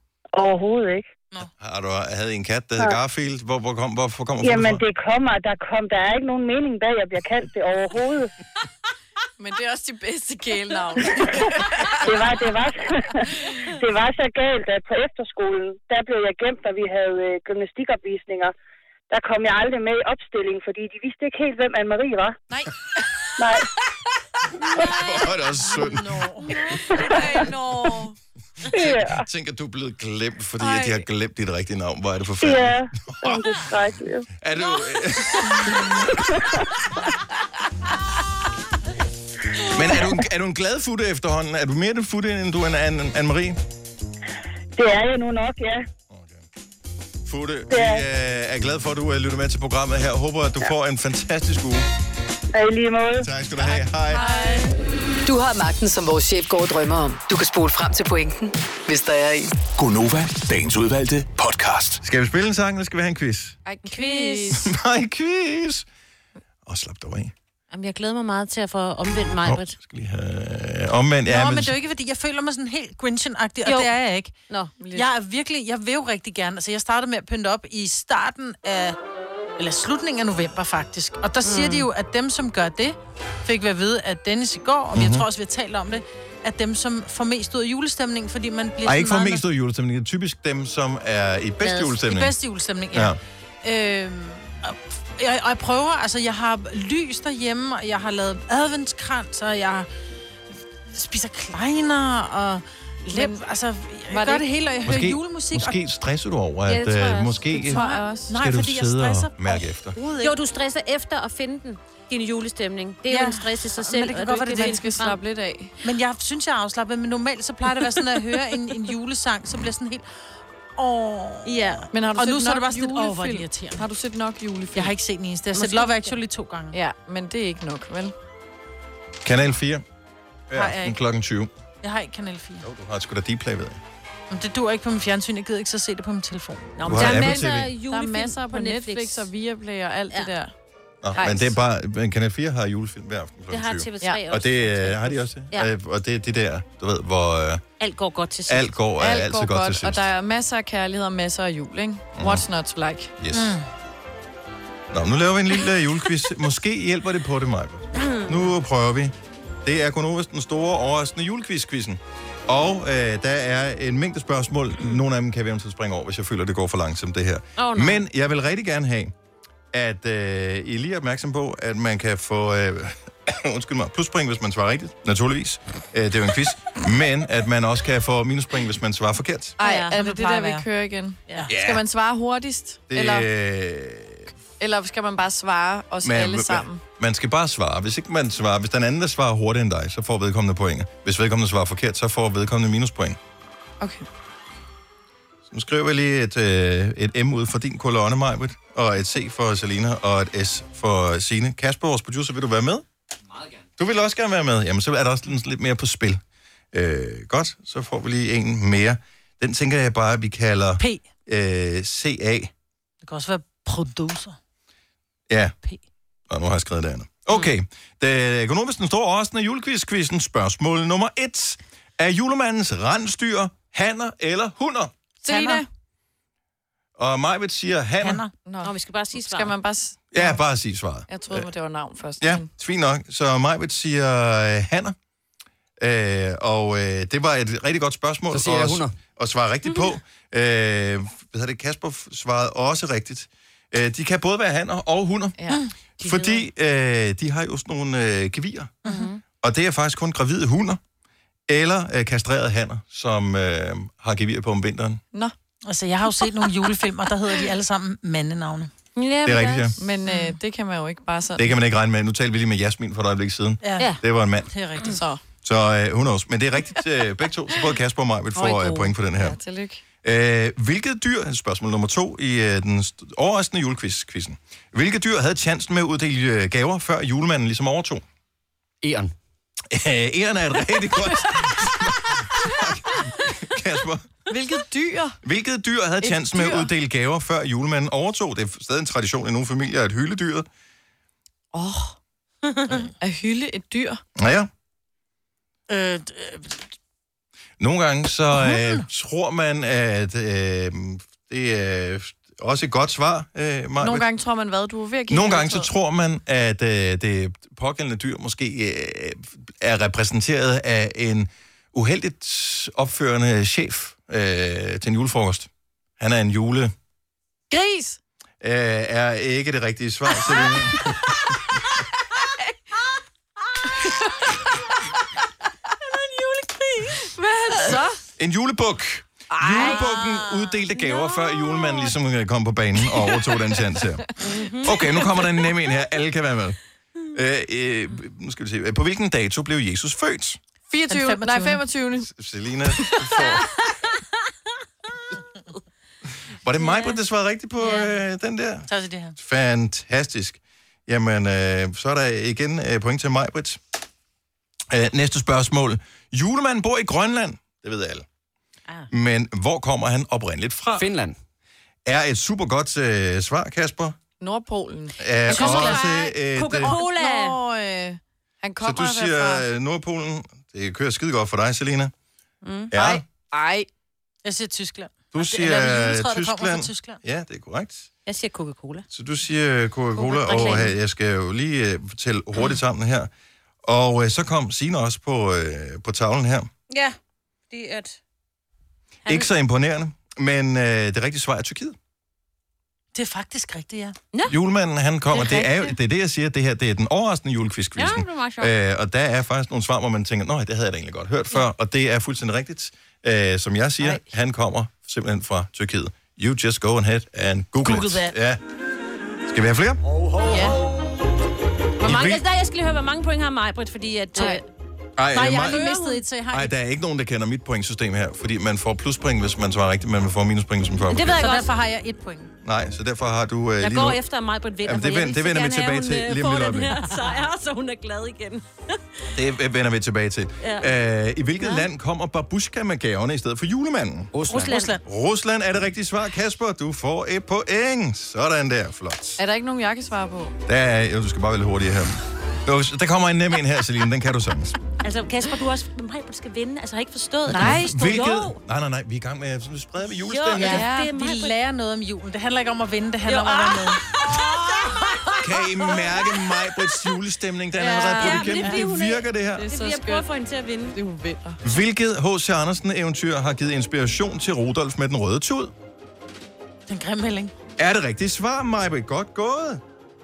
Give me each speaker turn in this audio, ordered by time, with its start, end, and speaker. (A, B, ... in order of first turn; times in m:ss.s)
0:00.4-0:01.1 A
0:01.6-0:04.8 B
0:04.4-0:08.3 A
0:09.4-0:12.0 C
0:12.0-0:18.5 A
0:19.1-0:22.4 A
0:23.4-0:23.7 A
0:24.8-0:26.3 B
0:25.0-0:26.8 D
0:26.6-0:28.2 C
0:28.7-0:29.3 A
0:28.7-0:33.4 B
0:30.6-0:31.0 C
0:32.4-0:34.3 A
0:34.4-0:36.0 B
0:36.1-0:36.5 A
0:39.7-0:43.6 B
0:44.8-0:45.9 A
0:46.1-0:46.4 B
0:47.3-0:51.8 B
0:47.7-0:48.0 A
0:52.5-0:53.3 A
0:53.2-0:54.3 B
0:54.1-0:54.7 C
0:55.2-0:59.5 E
0:59.8-1:02.0 F
1:02.0-1:03.6 B
1:03.7-1:04.7 C
1:03.8-1:04.6 G
1:04.5-1:05.9 B
1:06.7-1:07.3 B
1:07.7-1:09.8 G
1:09.4-1:11.8 B
1:11.3-1:14.3 D
1:13.6-1:13.9 G
1:14.5-1:14.7 G
1:14.8-1:15.1 C
1:14.9-1:19.0 D
1:19.6-1:29.4 D
1:21.4-1:21.9 G
1:24.9-1:25.3 B
1:28.8-1:32.4 B
1:31.8-1:39.9 D
1:32.9-1:33.2 B
1:40.9-1:45.8 D
1:43.1-1:43.4 C
1:44.1-1:44.4 C
1:44.8-1:47.8 B
1:46.7-1:47.7 G
1:47.6-1:48.4 C
1:47.7-1:50.3 D
1:48.4-1:50.0 B
1:50.2-1:55.2 G
1:53.1-1:54.9 D
1:54.5-1:55.7 C
1:55.8-2:00.1 D
2:00.8-2:03.8 D
2:01.4-2:01.9 G
2:01.9-2:04.9 C
2:04.7-2:06.8 D
2:05.6-2:06.2 G
2:06.7-2:08.2 C
2:09.2-2:09.8 B
2:10.5-2:11.5 B
2:10.5-2:11.0 D
2:11.8-2:12.6 D
2:12.6-2:13.8 B
2:14.3-2:16.8 D
2:16.8-2:19.3 G
2:16.8-2:17.7 B
2:16.9-2:20.5 C
2:21.0-2:27.6 B
2:21.1-2:21.6 C
2:23.5-2:25.7 G
2:27.8-2:28.7 G
2:28.5-2:30.1 B
2:29.0-2:33.1 C
2:32.2-2:32.4 B
2:33.2-2:33.6 B
2:33.3-2:33.7 D
2:34.9-2:49.1 B
2:38.0-2:38.4 G
2:47.6-2:48.0 G
2:49.7-2:59.6 B
2:59.6-3:03.3 C
2:59.6-3:00.4 G
3:00.3-3:00.6 D
3:01.5-3:01.8 B
3:02.9-3:04.3 B
3:04.6-3:06.8 C
3:06.0-3:13.2 B
3:13.8-3:14.1 C
3:15.5-3:22.9 B
3:23.8-3:26.2 B
3:26.7-3:32.5 B
3:30.8-3:31.0 D
3:33.0-3:34.4 D
3:35.3-3:35.6 B
3:36.3-3:44.9 B
3:45.2-3:45.7 C
3:45.2-3:45.6 D
3:47.0-3:48.2 B
3:48.0-3:48.3 D
3:48.4-3:50.4 C
3:48.6-3:49.6 G
3:50.1-3:51.5 B
3:51.1-3:52.5 C
3:52.2-3:55.0 B
3:55.8-4:05.4 B
3:58.3-3:59.0 H
4:06.0-4:08.7 B
4:06.0-4:06.4 G
4:08.9-4:09.2 G
4:09.4-4:10.8 B
4:11.5-4:15.0 B
4:15.7-4:18.7 D
4:19.0-4:19.8 G
4:19.2-4:19.8 B
4:19.8-4:21.6 C
4:20.1-4:20.4 D
4:21.4-4:24.5 B
4:23.6-4:24.0 D
4:24.5-4:25.0 D
4:24.9-4:25.2 C
4:25.4-4:29.4 B
4:28.4-4:28.9 G
4:29.2-4:29.8 C
4:30.0-4:38.0 B
4:38.8-4:39.1 H
4:39.7-4:44.1 B
4:44.3-4:45.2 C
4:45.2-4:50.5 B
4:46.0-4:46.7 C
4:51.5-4:52.0 C
4:53.0-4:54.0 C
4:54.2-4:54.5 B
4:55.7-4:56.6 D
4:57.6-5:04.1 B
4:58.4-4:58.8 D
5:03.8-5:05.7 C
5:05.1-5:16.7 B
5:17.5-5:18.0 C
5:18.4-5:21.1 B
5:23.8-5:24.1 C
5:26.0-5:27.0 D
5:27.0-5:28.0 C
5:28.2-5:36.6 B
5:29.3-5:29.9 C
5:30.8-5:31.9 G
5:34.2-5:35.4 G
5:37.1-5:40.4 B
5:40.7-5:42.1 C
5:40.9-5:41.6 D
5:42.0-5:43.5 B
5:42.8-5:43.1 C
5:46.4-5:53.6 B
5:46.6-5:47.0 G
5:48.7-5:49.2 D
5:54.7-5:58.1 B
5:58.9-6:00.9 B
6:00.8-6:01.2 H
6:01.8-6:04.0 B
6:04.2-6:05.0 C
6:05.0-6:06.7 B
6:05.3-6:05.9 D
6:05.3-6:07.4 G
6:06.7-6:09.5 C
6:08.6-6:11.9 B
6:12.4-6:12.7 G
6:12.7-6:13.0 B
6:12.7-6:13.7 C
6:14.2-6:17.0 D
6:15.1-6:17.9 B
6:18.1-6:18.9 G
6:18.9-6:23.1 B
6:20.0-6:20.8 G
6:23.6-6:26.5 B
6:26.7-6:27.0 G
6:27.5-6:28.0 G
6:29.1-6:31.8 B
6:32.9-6:34.0 D
6:34.3-6:48.4 B
6:35.1-6:35.8 G
6:37.8-6:38.5 G
6:47.6-6:48.2 D
6:49.3-6:49.8 B
6:50.3-6:50.6 D
6:51.8-6:54.4 G
6:51.8-6:52.2 B
6:55.0-6:55.6 B
6:55.1-6:56.5 D
6:55.4-6:56.0 G
6:56.3-7:01.3 B
7:00.9-7:01.5 G
7:01.0-7:02.3 D
7:02.4-7:04.0 B
7:03.6-7:09.1 G
7:04.6-7:06.8 B
7:09.2-7:14.1 B
7:10.4-7:10.7 G
7:14.1-7:14.7 H
7:14.3-7:14.8 D
7:14.4-7:14.7 G
7:14.8-7:19.2 B
7:19.2-7:20.4 C
7:20.5-7:24.6 B
7:24.8-7:28.4 G
7:27.3-7:30.7 B
7:27.4-7:27.6 D
7:30.1-7:31.4 G
7:30.4-7:34.0 D
7:33.1-7:36.2 G
7:35.2-7:39.5 B
7:37.6-7:38.4 C
7:37.6-7:40.8 G
7:39.4-7:40.1 C
7:40.7-7:41.4 C
7:41.4-7:45.5 B
7:46.7-7:47.3 D
7:47.6-7:49.6 B